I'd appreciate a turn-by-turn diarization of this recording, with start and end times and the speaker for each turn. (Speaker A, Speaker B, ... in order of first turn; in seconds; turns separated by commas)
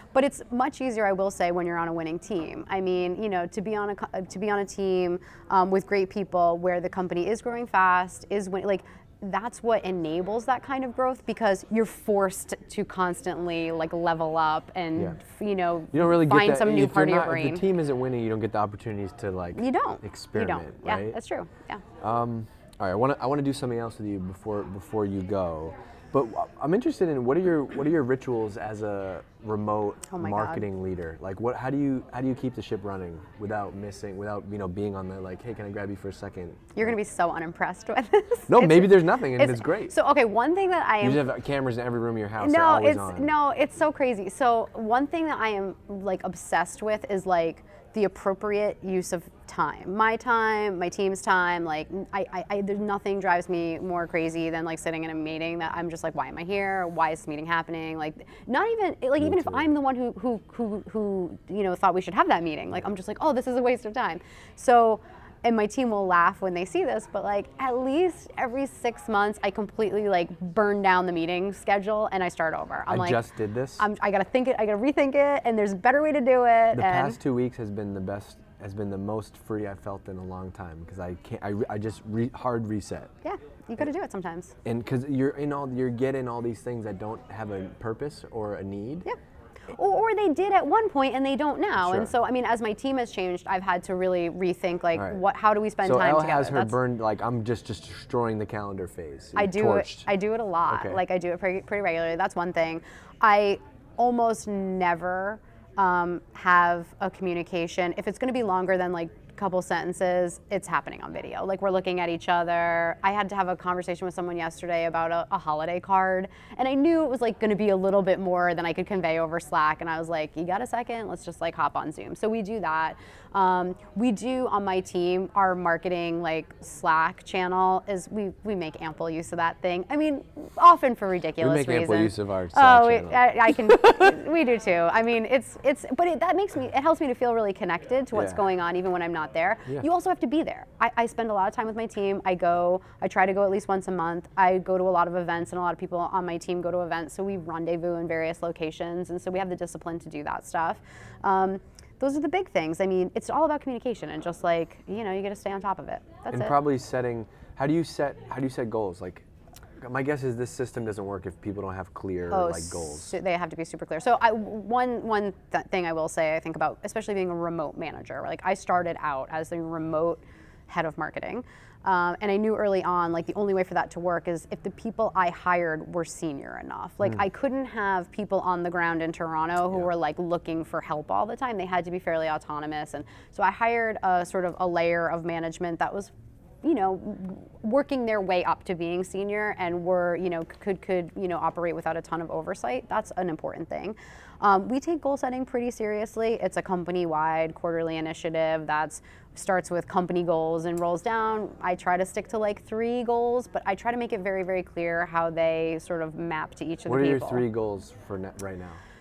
Speaker A: 0.1-17.6, Speaker B: 15.9-21.2, Speaker A: 19.6-21.8, Speaker B: 22.0-37.0, Speaker A: 30.1-30.6, Speaker A: 36.8-41.2, Speaker B: 38.5-39.9, Speaker B: 41.0-43.3, Speaker A: 42.4-73.2, Speaker B: 59.2-59.6, Speaker B: 72.9-73.8, Speaker A: 73.8-77.2, Speaker B: 76.7-83.1, Speaker A: 83.2-84.5, Speaker B: 84.6-89.1, Speaker A: 89.7-96.7, Speaker B: 91.8-92.1, Speaker B: 95.8-100.1, Speaker A: 99.3-156.6, Speaker B: 100.7-101.0, Speaker B: 131.4-134.1, Speaker B: 138.1-138.4, Speaker B: 156.3-159.2, Speaker B: 159.8-163.1, Speaker A: 162.3-186.1, Speaker A: 186.6-207.4, Speaker B: 206.9-208.8